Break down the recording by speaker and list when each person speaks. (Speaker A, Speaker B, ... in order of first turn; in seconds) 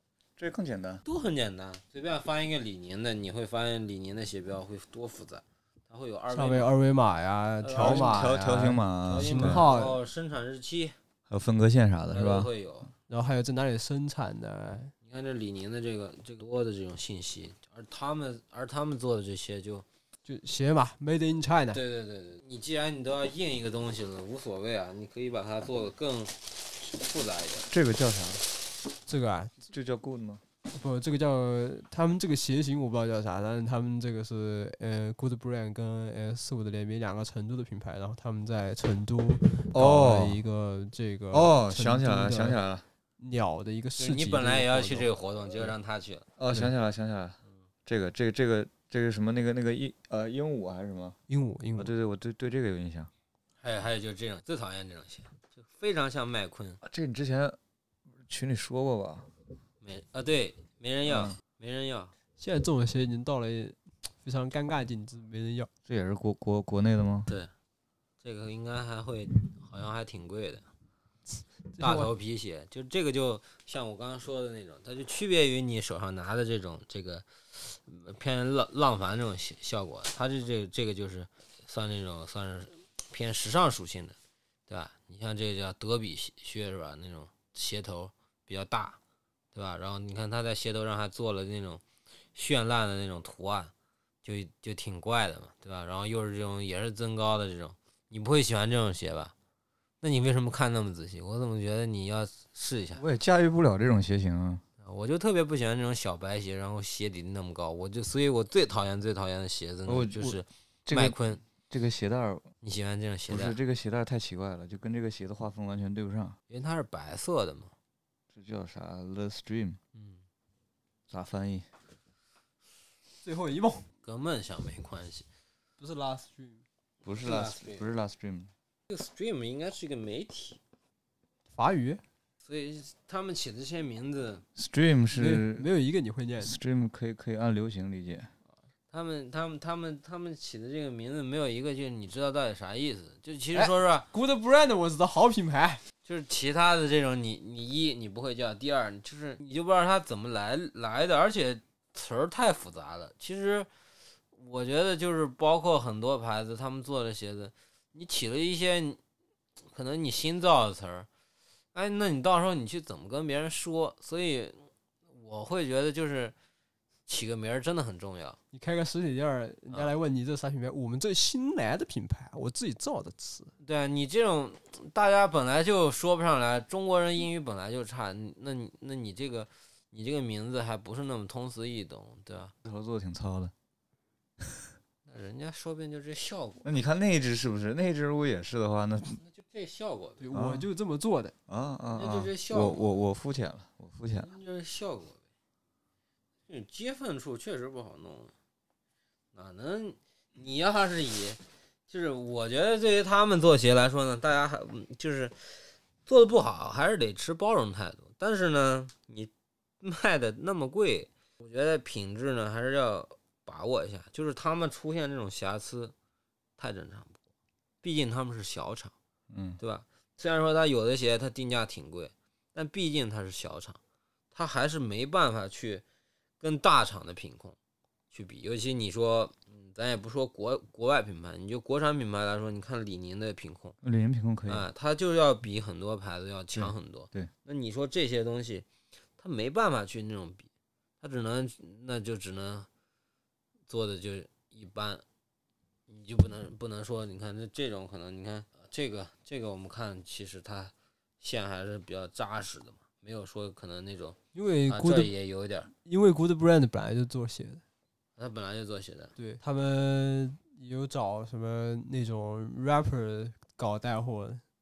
Speaker A: 0.4-1.0, 7.7-9.7, 11.3-12.5, 27.7-28.4, 29.7-30.4, 39.7-40.4, 41.3-42.8, 46.4-51.1, 51.8-53.1, 56.8-57.6, 58.3-59.3, 61.1-61.4, 65.9-67.3, 103.0-104.6, 109.9-112.4, 113.3-116.3, 118.3-119.8, 121.1-121.6, 127.0-128.5, 134.6-135.7, 136.4-138.3, 182.6-183.5, 186.6-189.2, 190.3-190.7, 191.5-194.3, 219.3-219.6, 233.8-234.7, 236.5-237.3
Speaker B: 1.0-6.7, 7.6-8.4, 9.0-10.9, 12.1-12.9, 15.0-19.8, 21.7-27.7, 44.0-46.2, 53.6-56.8, 59.8-62.1, 68.2-70.6, 71.8-84.2, 84.7-89.0, 89.5-91.8, 92.3-93.7, 94.2-99.3, 100.0-103.0, 104.8-111.4, 112.6-113.6, 116.5-117.7, 119.9-120.2, 124.0-125.2, 127.2-127.8, 128.9-130.6, 132.4-134.4, 138.9-144.1, 146.0-153.7, 154.3-159.0, 159.7-161.1, 161.7-166.3, 167.1-168.4, 173.6-182.5, 185.1-186.7, 189.2-190.3, 191.9-192.9, 194.2-195.2, 196.5-198.3, 199.3-209.3, 209.8-215.9, 216.6-217.2, 217.8-218.9, 219.6-223.8, 224.3-225.8, 226.4-227.6, 228.1-233.8, 234.5-238.7, 239.2-240.5, 241.0-242.7, 243.7-245.0, 245.9-254.2, 254.7-255.7, 258.2-259.1
Speaker C: 6.3-10.0, 13.1-14.9, 20.2-21.8, 29.1-29.6, 30.7-42.6, 43.2-45.1, 51.3-51.9, 62.4-65.7, 71.8-72.1, 123.2-123.8, 125.8-126.6, 131.5-132.0, 135.1-136.6, 143.5-145.8, 168.5-173.5, 190.2-191.3, 254.3-255.1, 255.8-257.6, 259.2-264.4